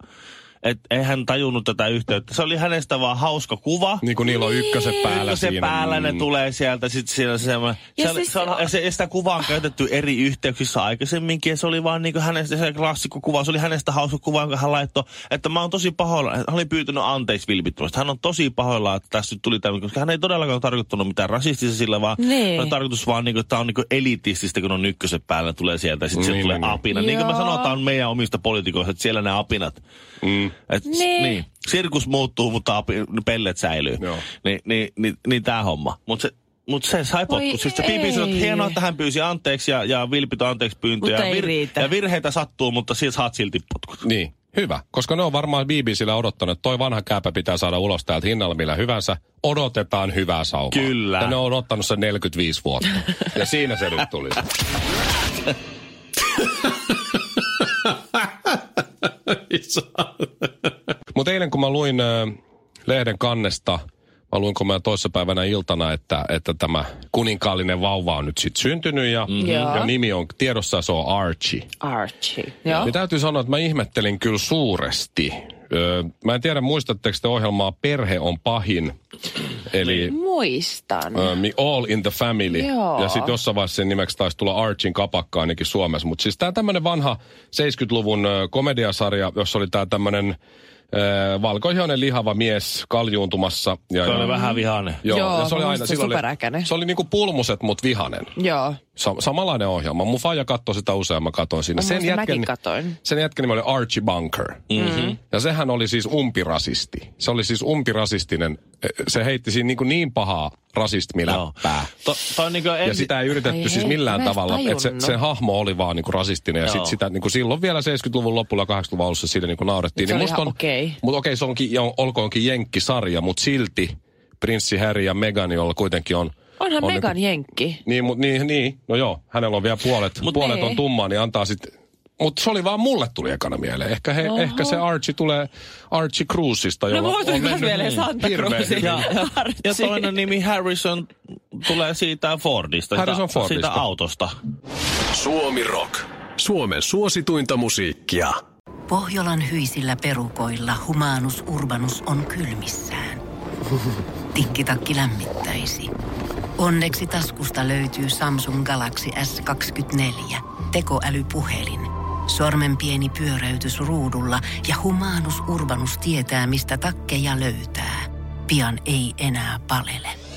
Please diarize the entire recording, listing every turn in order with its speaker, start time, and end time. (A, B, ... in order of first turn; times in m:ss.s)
0:00.6-0:04.0 A
0:04.0-0:06.2 B
0:04.3-0:05.0 C
0:05.0-0:29.8 A
0:08.0-0:08.7 C
0:22.2-0:22.7 C
0:26.1-0:26.8 B
0:26.9-0:27.8 C
0:30.2-0:30.5 B
0:30.7-0:44.0 A
0:30.8-0:31.4 C
0:34.0-0:34.2 B
0:37.3-0:38.8 C
0:41.0-0:41.9 C
0:44.0-0:54.4 B
0:50.7-0:51.4 A
0:59.3-1:00.1 D
1:01.1-1:03.8 B
1:04.3-1:11.7 B
1:09.4-1:09.9 C
1:09.4-1:09.7 A
1:11.8-1:12.9 C
1:12.7-1:19.0 B
1:19.6-1:20.2 B
1:19.8-1:21.4 C
1:21.1-1:30.4 B
1:22.5-1:23.4 C
1:30.9-1:34.3 B
1:34.0-1:35.0 A
1:34.2-1:36.7 C
1:35.0-1:38.3 B
1:38.4-1:38.8 C
1:39.0-1:42.5 B
1:41.7-1:43.0 C
1:43.0-1:51.9 B
1:44.7-1:45.2 A
1:44.7-1:45.1 C
1:51.3-1:53.3 A
1:52.8-2:07.1 B
1:53.4-1:55.2 C
1:56.6-1:57.0 A
1:59.9-2:01.0 C
2:06.6-2:07.8 C
2:07.8-2:19.1 B
2:10.3-2:10.8 C
2:14.2-2:14.8 C
2:16.9-2:20.2 C
2:18.8-2:19.1 A
2:19.6-2:24.3 A
2:22.9-2:23.8 B
2:25.1-2:28.3 D
2:28.9-2:33.2 E
2:34.3-2:35.9 E
2:36.6-2:50.2 E